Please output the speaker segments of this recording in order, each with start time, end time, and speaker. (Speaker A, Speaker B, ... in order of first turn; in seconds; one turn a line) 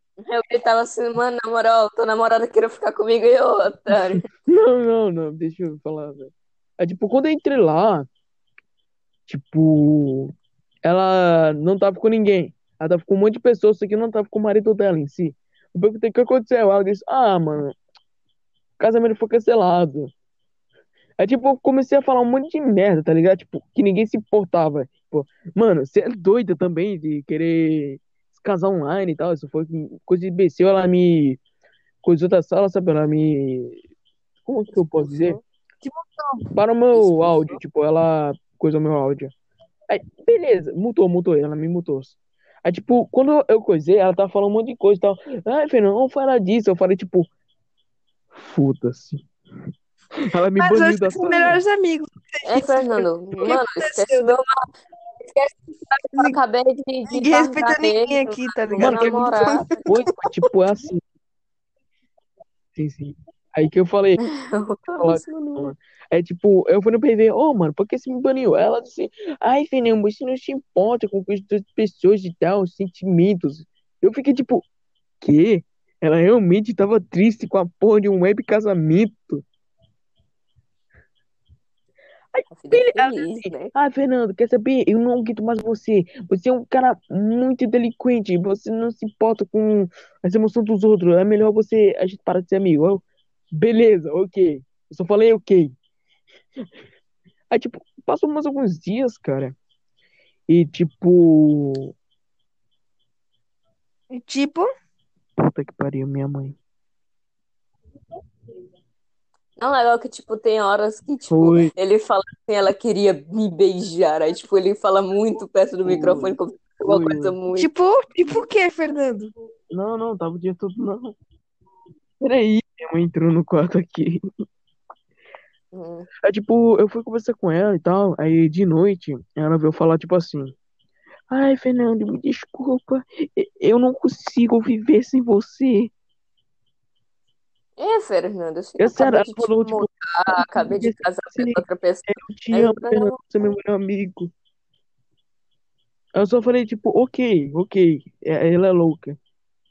Speaker A: 0.2-4.3
Speaker B: 4.1-8.1
Speaker B: 9.3-10.3
Speaker B: 10.8-17.8
Speaker B: 18.8-20.1
Speaker B: 21.2-31.4
Speaker B: 32.0-33.8
Speaker B: 34.5-35.4
Speaker A: 34.8-35.4
Speaker C: 35.8-36.5
Speaker B: 36.6-39.3
Speaker A: 36.9-37.6
Speaker B: 39.9-47.3
Speaker B: 48.3-49.2
Speaker B: 50.2-51.6
Speaker C: 50.6-54.4
Speaker A: 52.5-54.5
Speaker A: 55.2-59.9
Speaker C: 56.1-56.4
Speaker C: 57.1-59.9
Speaker B: 58.8-59.3
Speaker B: 59.9-61.0
Speaker B: 62.8-64.2
Speaker A: 64.2-65.7
Speaker B: 65.0-74.7
Speaker B: 75.2-79.5
Speaker B: 82.3-95.7
Speaker A: 82.5-83.7
Speaker B: 97.5-99.5
Speaker B: 100.5-102.0
Speaker C: 104.1-104.7
Speaker B: 105.4-106.6
Speaker A: 109.6-117.7
Speaker B: 111.3-111.7
Speaker B: 115.8-117.3
Speaker C: 117.5-119.3
Speaker B: 119.7-121.2
Speaker B: 122.2-124.3
Speaker A: 125.7-126.1
Speaker B: 126.2-130.6
Speaker B: 131.3-135.9
Speaker A: 137.8-143.1
Speaker B: 138.8-144.3
Speaker B: 146.2-149.2